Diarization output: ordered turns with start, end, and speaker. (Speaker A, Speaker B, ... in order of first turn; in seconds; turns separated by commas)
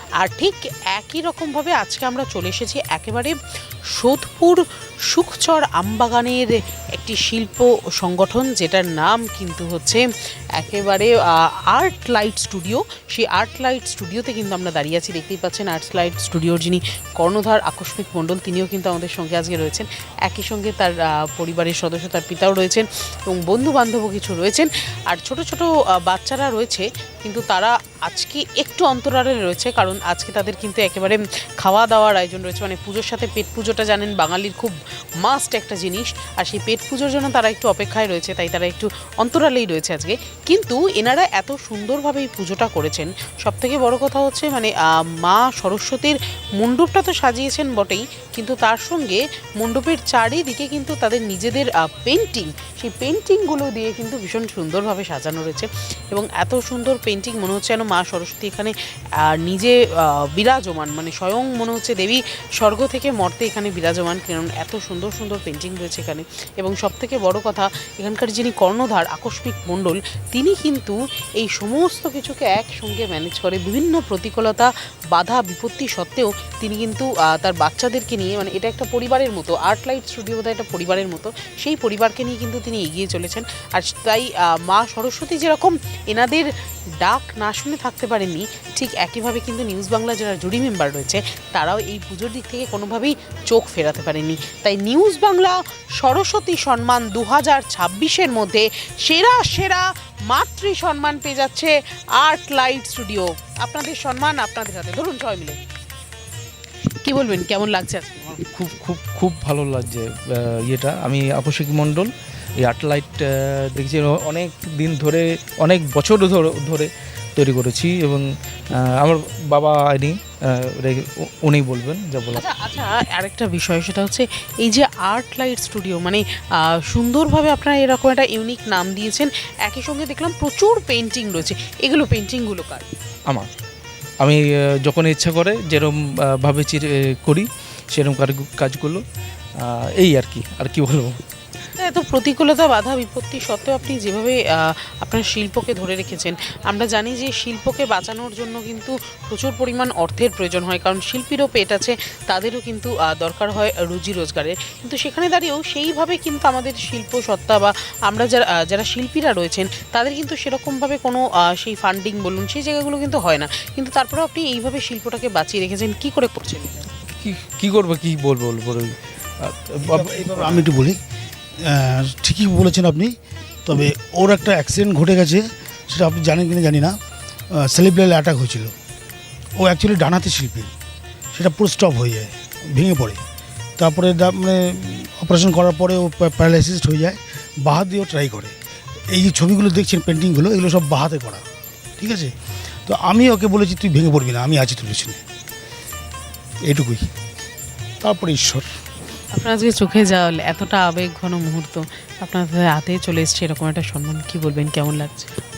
Speaker A: 0.2-3.4, Speaker A: 3.9-10.0, Speaker A: 10.6-11.2, Speaker A: 11.7-105.6, Speaker A: 107.0-108.4, Speaker B: 108.4-122.5, Speaker A: 122.3-132.9, Speaker B: 134.2-139.0, Speaker B: 139.6-141.2, Speaker A: 141.8-166.9, Speaker B: 167.1-170.8, Speaker C: 169.9-171.0, Speaker C: 171.7-173.1, Speaker C: 173.7-176.9, Speaker C: 177.6-178.7, Speaker C: 179.6-180.7, Speaker C: 181.3-183.2, Speaker C: 183.8-188.5, Speaker C: 189.1-191.4, Speaker C: 192.0-192.3, Speaker C: 192.8-195.2, Speaker C: 196.7-197.1, Speaker C: 198.0-198.6, Speaker A: 199.3-205.3